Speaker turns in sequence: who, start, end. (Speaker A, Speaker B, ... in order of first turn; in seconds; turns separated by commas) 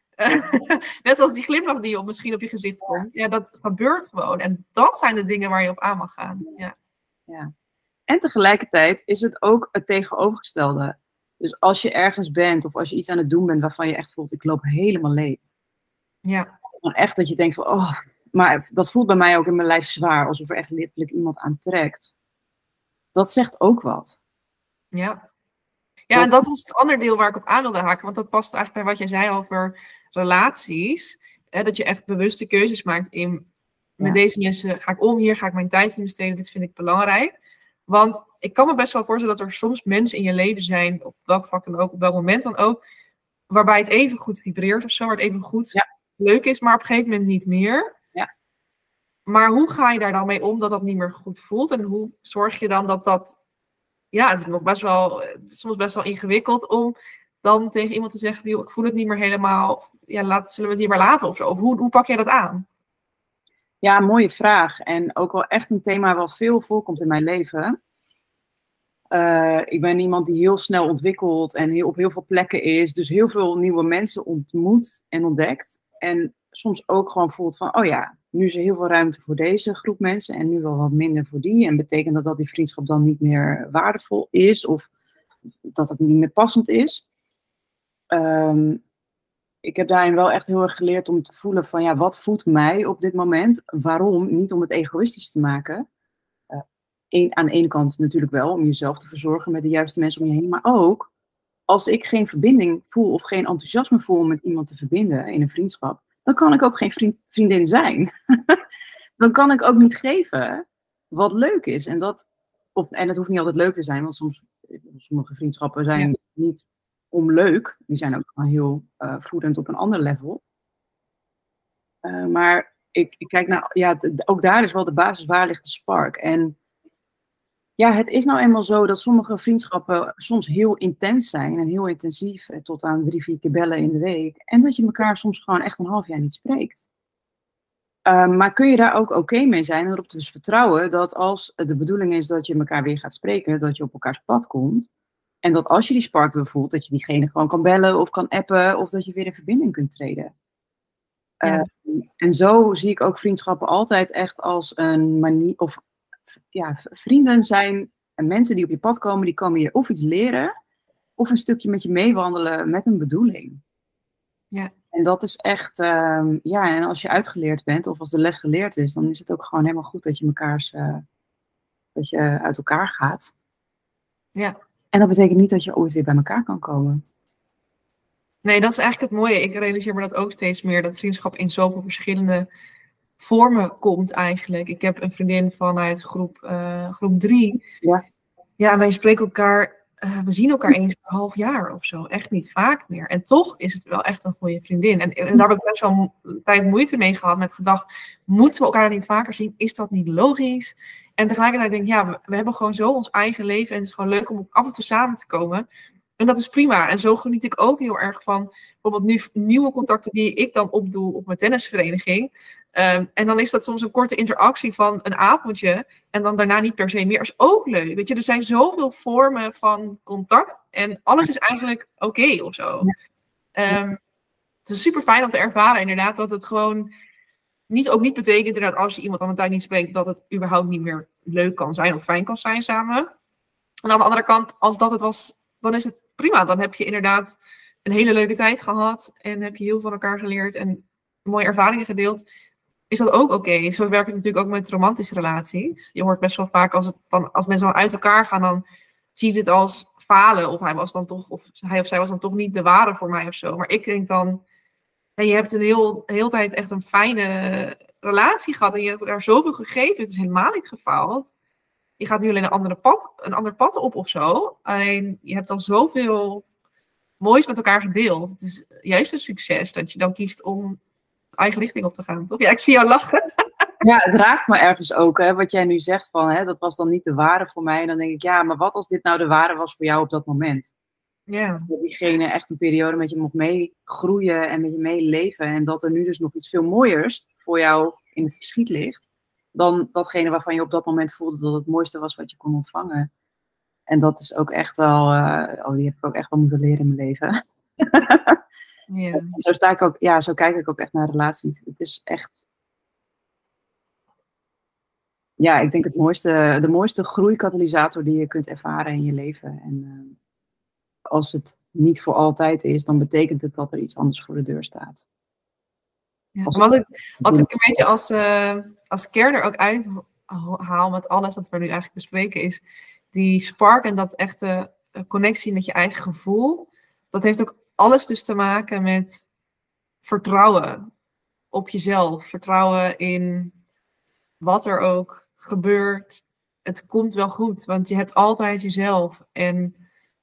Speaker A: 0.2-6.7, Speaker B: 8.1-15.4, Speaker A: 16.2-16.5, Speaker B: 16.8-22.1, Speaker B: 23.1-24.2, Speaker A: 24.9-25.2, Speaker A: 26.1-33.5, Speaker A: 34.0-37.3, Speaker A: 37.9-42.8, Speaker A: 43.5-47.9, Speaker A: 49.3-53.4, Speaker A: 54.1-62.6, Speaker B: 63.8-67.7, Speaker B: 69.1-84.9, Speaker B: 85.7-87.0, Speaker B: 88.1-88.8, Speaker B: 89.6-95.8, Speaker B: 96.5-101.1, Speaker B: 101.7-108.6, Speaker B: 109.2-120.4, Speaker B: 122.0-126.5, Speaker B: 127.8-136.9, Speaker B: 138.1-144.9, Speaker B: 145.4-150.3, Speaker B: 151.4-155.8, Speaker B: 156.5-160.5, Speaker B: 161.2-163.6, Speaker B: 164.9-171.0, Speaker B: 171.9-173.3, Speaker B: 174.9-177.0, Speaker A: 178.4-182.5, Speaker A: 183.2-187.6, Speaker A: 188.6-205.7, Speaker A: 206.2-222.9, Speaker A: 223.6-224.0, Speaker A: 224.7-226.9, Speaker A: 227.7-233.1, Speaker A: 233.8-242.2, Speaker A: 242.9-248.6, Speaker A: 249.1-254.4, Speaker A: 255.2-261.3, Speaker A: 262.0-266.4, Speaker A: 267.2-270.8, Speaker A: 271.4-273.2, Speaker B: 273.8-280.7, Speaker A: 281.3-281.7, Speaker B: 281.7-293.1, Speaker B: 293.9-298.4, Speaker A: 298.9-299.4, Speaker B: 299.1-302.4, Speaker B: 305.4-310.1, Speaker B: 311.1-315.0, Speaker A: 316.4-322.6, Speaker B: 317.2-317.5, Speaker A: 323.1-329.2, Speaker A: 330.0-330.9, Speaker A: 331.5-333.5, Speaker A: 334.4-339.7